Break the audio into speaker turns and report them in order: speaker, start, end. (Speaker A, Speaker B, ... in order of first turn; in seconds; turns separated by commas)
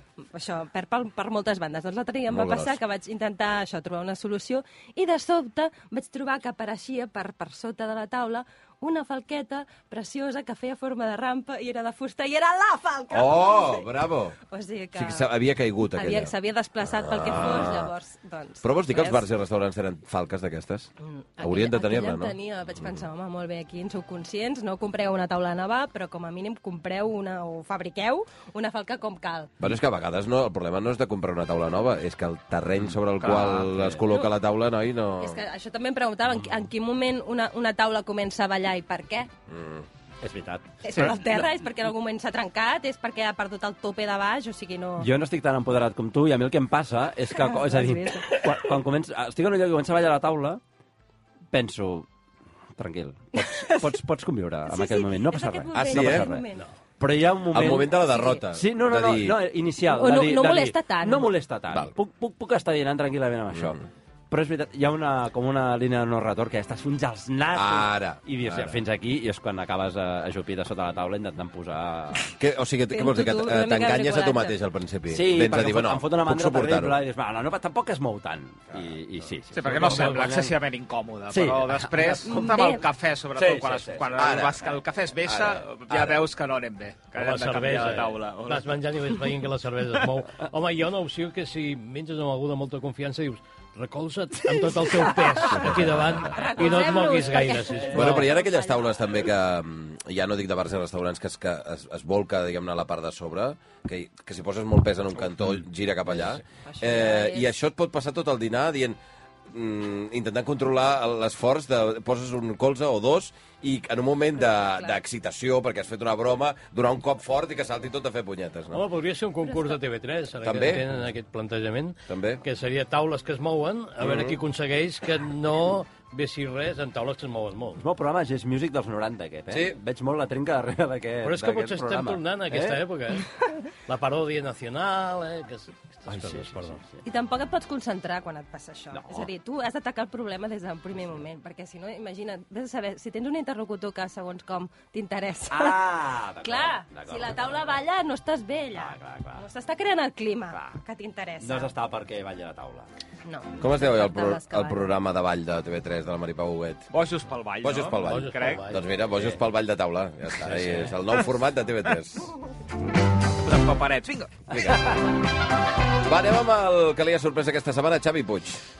Speaker A: 0.3-13.9, Speaker B: 2.3-2.8, Speaker B: 13.1-14.3, Speaker A: 14.5-15.3, Speaker B: 14.9-17.9, Speaker A: 15.9-19.2, Speaker B: 18.6-23.0, Speaker A: 21.0-29.5, Speaker B: 29.6-35.4, Speaker C: 33.2-34.0, Speaker A: 35.2-39.3, Speaker B: 39.5-39.9, Speaker C: 40.2-41.2, Speaker A: 40.8-45.1, Speaker C: 45.0-50.6, Speaker A: 47.4-48.4, Speaker C: 51.5-52.1, Speaker C: 52.8-56.4, Speaker A: 53.3-53.9, Speaker A: 54.7-56.6, Speaker B: 55.7-56.3, Speaker C: 57.0-57.9, Speaker B: 57.5-59.4, Speaker A: 58.0-58.4, Speaker C: 58.5-63.8, Speaker A: 59.9-61.3, Speaker B: 63.5-63.8, Speaker C: 64.3-72.3, Speaker B: 67.5-68.8, Speaker B: 72.4-77.0, Speaker A: 72.9-74.5, Speaker C: 75.1-80.6, Speaker D: 79.5-88.8, Speaker E: 79.6-80.3, Speaker C: 81.3-82.4, Speaker A: 82.2-82.8, Speaker C: 83.3-84.2, Speaker B: 84.1-84.6, Speaker B: 85.2-86.1, Speaker E: 87.2-98.3, Speaker A: 96.3-98.8, Speaker B: 97.9-109.0, Speaker A: 106.7-107.5, Speaker B: 109.5-118.8, Speaker A: 114.5-115.0, Speaker E: 118.7-127.8, Speaker B: 120.4-120.8, Speaker B: 122.1-122.4, Speaker B: 124.0-124.4, Speaker C: 127.8-132.8, Speaker B: 129.5-129.8, Speaker E: 131.2-133.3, Speaker E: 133.9-136.8, Speaker C: 136.1-136.8, Speaker A: 137.0-151.7, Speaker C: 138.9-139.3, Speaker C: 145.5-147.7, Speaker C: 148.7-149.4, Speaker C: 151.4-152.9, Speaker A: 153.2-154.8, Speaker B: 153.6-156.9, Speaker D: 156.9-158.7, Speaker B: 157.6-162.3, Speaker E: 158.0-158.8, Speaker D: 163.4-164.4, Speaker B: 164.5-164.9, Speaker B: 166.0-168.6